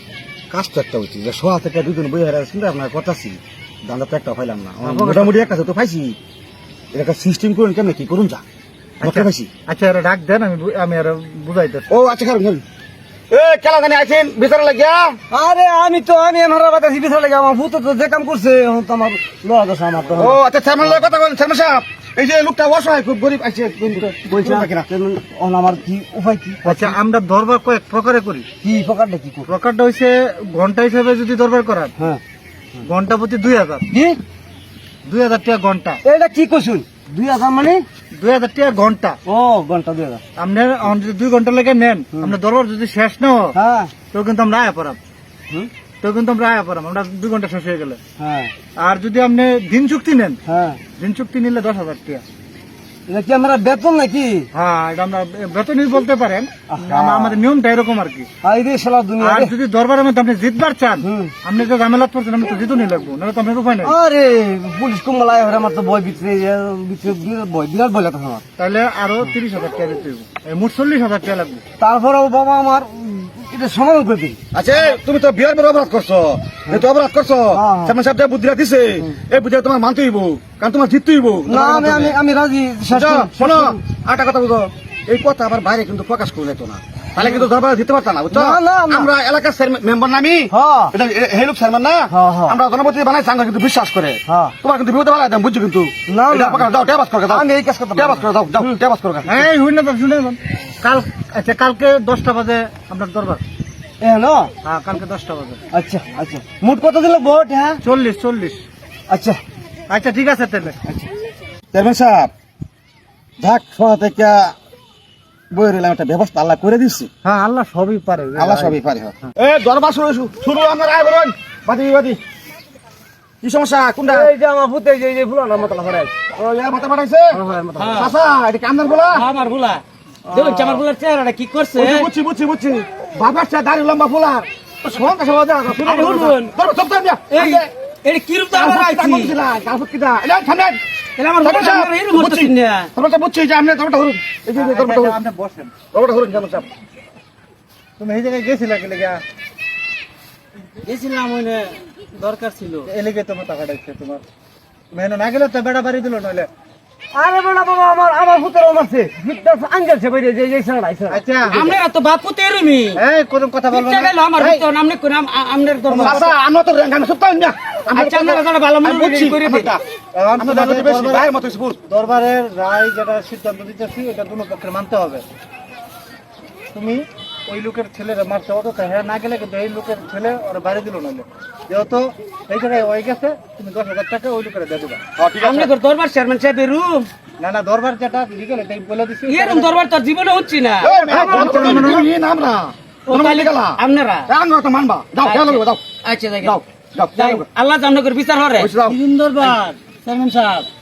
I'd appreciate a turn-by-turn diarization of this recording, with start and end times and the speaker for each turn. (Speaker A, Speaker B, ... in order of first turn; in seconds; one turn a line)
Speaker A: 0.5-6.2
Speaker B: 4.8-5.3
Speaker A: 6.9-8.4
Speaker B: 9.0-11.9
Speaker A: 9.0-9.5
Speaker A: 11.9-12.6
Speaker A: 13.3-15.2
Speaker C: 15.3-20.4
Speaker A: 20.1-24.9
Speaker C: 24.1-26.9
Speaker B: 26.6-28.5
Speaker C: 28.6-29.5
Speaker B: 29.5-31.9
Speaker B: 32.8-33.9
Speaker C: 33.9-34.2
Speaker B: 35.0-36.0
Speaker C: 36.0-37.8
Speaker B: 38.1-39.2
Speaker C: 39.2-40.2
Speaker B: 40.4-43.5
Speaker C: 43.5-43.9
Speaker B: 44.1-45.0
Speaker B: 46.0-48.0
Speaker C: 48.2-48.5
Speaker B: 48.8-50.4
Speaker C: 50.5-50.8
Speaker B: 51.0-52.2
Speaker C: 53.1-54.5
Speaker B: 54.5-58.3
Speaker C: 56.7-57.4
Speaker C: 58.4-59.5
Speaker B: 59.2-63.9
Speaker C: 61.0-61.3
Speaker C: 63.8-68.4
Speaker B: 68.6-71.6
Speaker C: 71.8-74.4
Speaker A: 74.5-82.2
Speaker C: 77.5-77.9
Speaker C: 81.5-83.8
Speaker A: 82.9-97.4
Speaker C: 88.3-89.1
Speaker C: 90.5-90.9
Speaker C: 92.1-92.6
Speaker C: 94.2-94.5
Speaker C: 96.1-96.7
Speaker C: 97.3-98.8
Speaker A: 98.0-99.5
Speaker B: 99.2-103.4
Speaker C: 104.0-104.5
Speaker B: 104.6-105.6
Speaker C: 105.7-107.8
Speaker B: 107.8-108.7
Speaker C: 109.1-109.4
Speaker B: 109.9-110.8
Speaker A: 111.7-112.3
Speaker A: 113.4-114.5
Speaker A: 115.5-117.1
Speaker B: 117.2-118.8
Speaker A: 118.3-122.2
Speaker A: 123.4-124.3
Speaker C: 124.1-126.2
Speaker A: 126.3-127.4
Speaker C: 127.3-128.1
Speaker D: 127.8-128.1
Speaker A: 127.9-129.2
Speaker D: 129.1-132.1
Speaker C: 130.3-130.8
Speaker A: 131.8-137.7
Speaker D: 135.8-136.5
Speaker D: 137.3-139.4
Speaker A: 138.5-140.8
Speaker D: 141.2-142.9
Speaker A: 141.4-145.2
Speaker B: 144.5-145.7
Speaker A: 145.9-146.7
Speaker B: 148.0-149.2
Speaker D: 150.8-152.9
Speaker B: 152.8-154.2
Speaker B: 154.9-156.5
Speaker C: 157.1-161.2
Speaker B: 161.1-161.7
Speaker D: 161.5-163.0
Speaker B: 162.9-164.7
Speaker D: 163.7-166.3
Speaker A: 165.9-169.8
Speaker B: 165.9-166.2
Speaker D: 167.9-169.7
Speaker B: 170.1-171.2
Speaker A: 170.4-171.8
Speaker B: 171.9-175.2
Speaker B: 176.7-185.0
Speaker A: 185.2-185.7
Speaker D: 185.4-187.1
Speaker B: 187.4-189.8
Speaker D: 189.2-191.9
Speaker A: 190.8-197.5
Speaker B: 191.1-192.1
Speaker D: 193.1-194.3
Speaker D: 195.2-196.6
Speaker D: 197.1-198.7
Speaker A: 198.6-199.0
Speaker B: 198.8-200.7